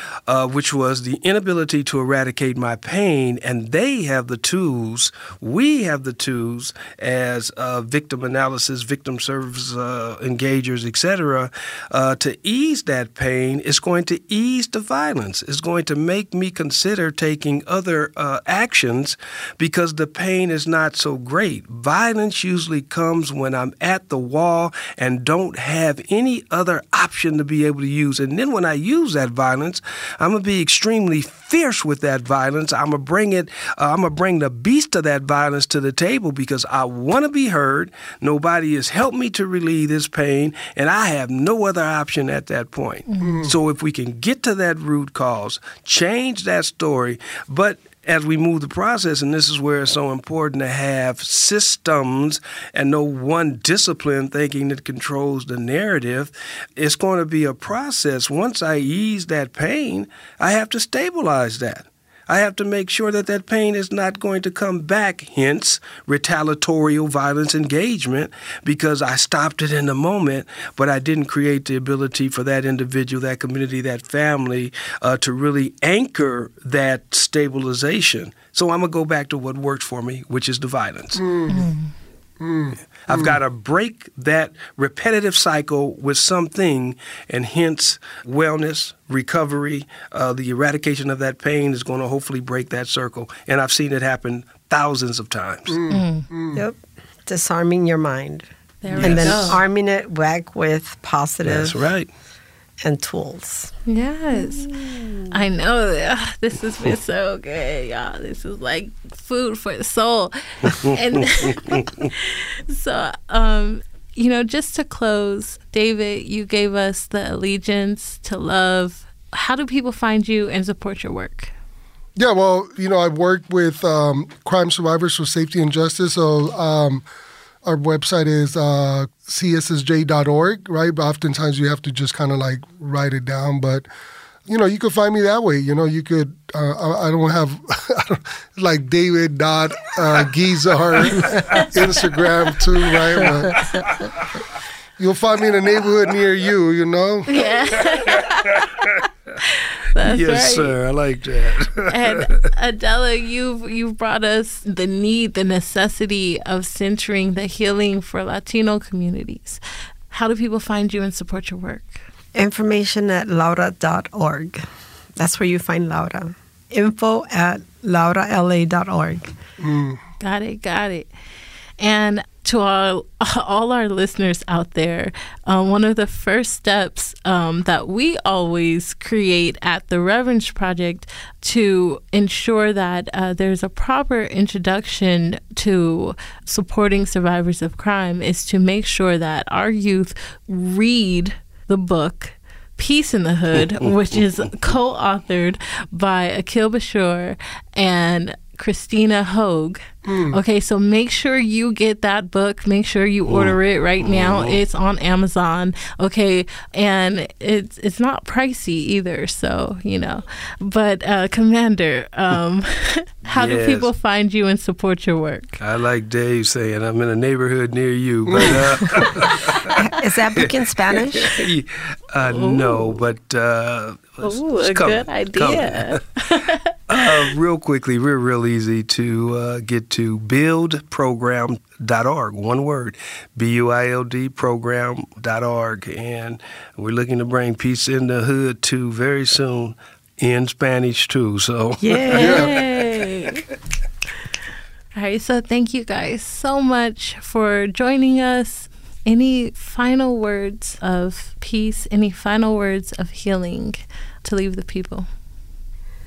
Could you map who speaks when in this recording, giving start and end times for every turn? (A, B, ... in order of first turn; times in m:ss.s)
0:00.3-1:21.2 A
0:43.1-0:43.4 B
0:43.2-0:43.5 C
1:21.2-1:21.7 C
1:21.5-1:21.9 B
1:22.4-1:23.4 C
1:23.1-1:35.8 A
1:35.7-1:36.6 C
1:35.9-1:36.3 B
1:36.5-1:38.5 D
1:38.8-1:39.6 B
1:39.0-1:39.6 A
1:39.0-1:41.8 D
1:41.4-1:42.1 A
1:42.8-1:43.7 D
1:43.9-1:44.8 B
1:45.3-2:01.5 B
2:02.2-2:07.0 C
2:07.6-2:13.9 C
2:14.5-2:23.7 C
2:21.0-2:21.7 A
2:23.2-2:23.8 A
2:25.0-2:27.4 C
2:27.3-2:28.7 B
2:28.0-2:28.7 A
2:29.4-2:30.8 B
2:30.0-2:32.3 A
2:31.9-2:42.0 B
2:42.4-2:44.7 D
2:45.2-2:49.3 D
2:49.6-2:50.0 C
2:50.2-2:51.1 B
2:51.8-3:35.6 B
3:20.1-3:20.4 C
3:23.3-3:24.6 A
3:33.3-3:33.9 A
3:35.6-3:39.8 A
3:38.3-3:38.8 C
3:39.8-3:41.4 D
3:40.9-3:46.0 A
3:42.2-3:43.0 B
3:44.2-3:47.4 B
3:46.9-4:02.6 A
4:01.8-4:03.4 B
4:02.2-4:02.6 C
4:05.0-4:15.1 B